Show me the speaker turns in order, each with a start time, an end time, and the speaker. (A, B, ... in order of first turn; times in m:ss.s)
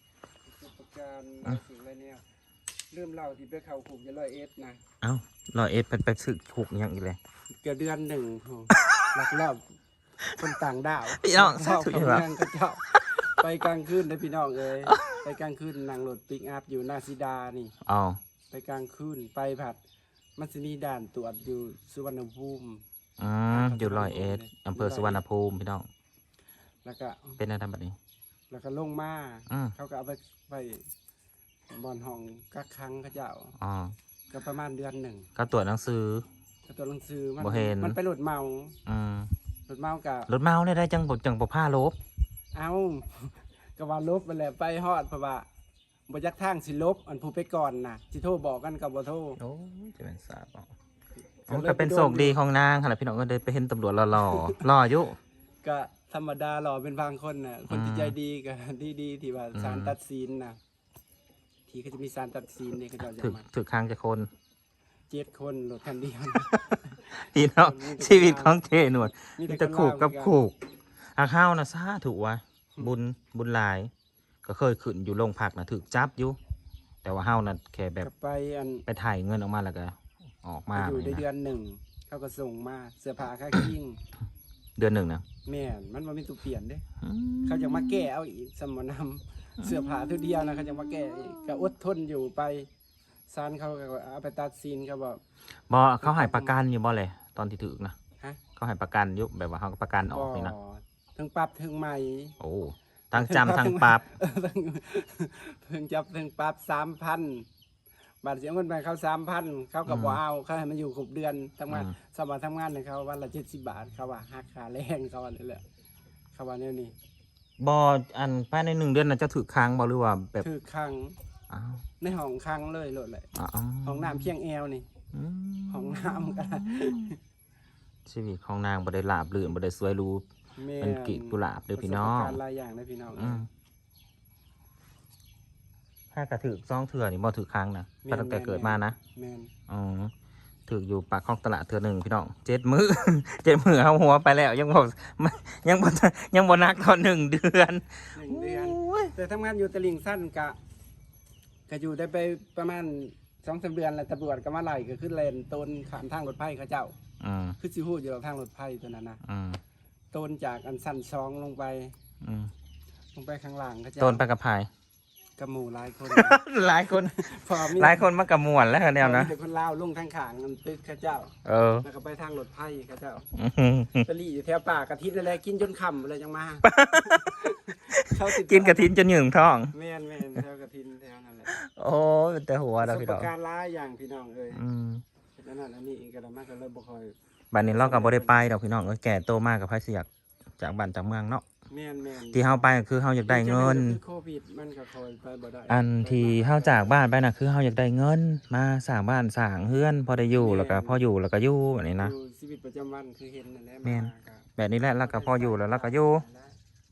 0:00.5-0:02.2 A
0:02.9-0:04.8 A
0:05.0-0:07.2 B
0:07.6-0:09.6 A
0:10.3-0:17.7 A
0:11.2-0:12.2 B
0:14.9-0:15.2 B
0:17.8-0:18.2 B
0:18.5-0:19.8 A
0:20.4-0:22.8 A
0:23.2-0:25.9 B
0:23.5-0:25.2 A
0:26.8-0:27.4 A
0:27.4-0:28.0 B
0:28.5-0:30.9 A
0:29.5-0:29.8 B
0:31.7-0:33.6 A
0:33.6-0:34.0 B
0:34.3-0:35.3 A
0:35.4-0:36.3 B
0:36.7-0:38.8 A
0:37.4-0:38.0 B
0:38.9-0:39.3 B
0:39.7-0:40.3 A
0:40.3-0:42.0 B
0:42.5-0:45.5 A
0:46.1-0:49.4 A
0:49.4-0:50.7 B
0:51.5-0:52.4 A
0:51.5-0:55.2 B
0:54.2-0:54.6 A
0:55.6-1:00.6 A
0:57.7-0:58.2 B
0:59.5-1:00.0 B
1:01.7-1:03.5 A
1:03.2-1:04.3 B
1:05.1-1:08.6 A
1:07.2-1:10.6 B
1:09.2-1:10.4 A
1:11.2-1:13.9 B
1:14.4-1:16.4 B
1:17.0-1:18.1 B
1:18.0-1:18.8 A
1:18.9-1:21.2 B
1:20.8-1:24.0 A
1:24.8-1:25.2 B
1:25.5-1:26.8 A
1:27.0-1:28.1 B
1:27.5-1:32.7 A
1:29.6-1:31.7 B
1:33.3-1:35.2 A
1:35.7-1:38.0 B
1:36.0-1:36.6 A
1:38.6-1:40.5 B
1:40.1-1:42.4 A
1:42.4-1:44.0 B
1:43.1-1:47.5 A
1:48.2-1:55.6 A
1:49.9-1:50.2 B
1:51.7-1:52.0 B
1:56.4-1:56.9 A
1:57.6-2:00.5 B
2:00.4-2:01.2 A
2:01.5-2:01.8 B
2:02.0-2:03.3 A
2:03.4-2:04.3 B
2:03.8-2:04.9 A
2:05.1-2:07.1 B
2:05.7-2:07.2 A
2:08.1-2:10.2 B
2:10.6-2:13.4 A
2:10.8-2:12.4 B
2:13.2-2:13.5 B
2:16.1-2:19.0 B
2:18.0-2:19.5 A
2:19.7-2:20.1 B
2:20.7-2:29.1 B
2:28.2-2:30.6 A
2:31.7-2:37.0 A
2:37.2-2:37.6 B
2:37.6-2:39.2 A
2:39.2-2:39.6 B
2:40.1-2:42.0 A
2:42.2-2:42.5 B
2:43.2-2:44.2 A
2:44.0-2:44.7 B
2:45.4-2:48.1 A
2:46.1-2:49.3 B
2:49.0-2:53.3 A
2:51.4-2:51.9 B
2:53.3-2:54.1 B
2:54.0-2:59.0 A
2:56.6-2:57.4 B
2:57.9-2:59.7 B
2:59.7-3:01.5 A
3:01.5-3:03.3 B
3:02.8-3:04.6 A
3:04.5-3:05.0 B
3:05.4-3:07.2 A
3:07.5-3:10.1 B
3:07.7-3:08.5 A
3:10.6-3:11.4 B
3:11.7-3:17.0 A
3:12.3-3:14.0 B
3:15.7-3:22.1 B
3:20.3-3:21.0 A
3:22.0-3:24.5 A
3:23.8-3:26.2 B
3:25.0-3:26.6 A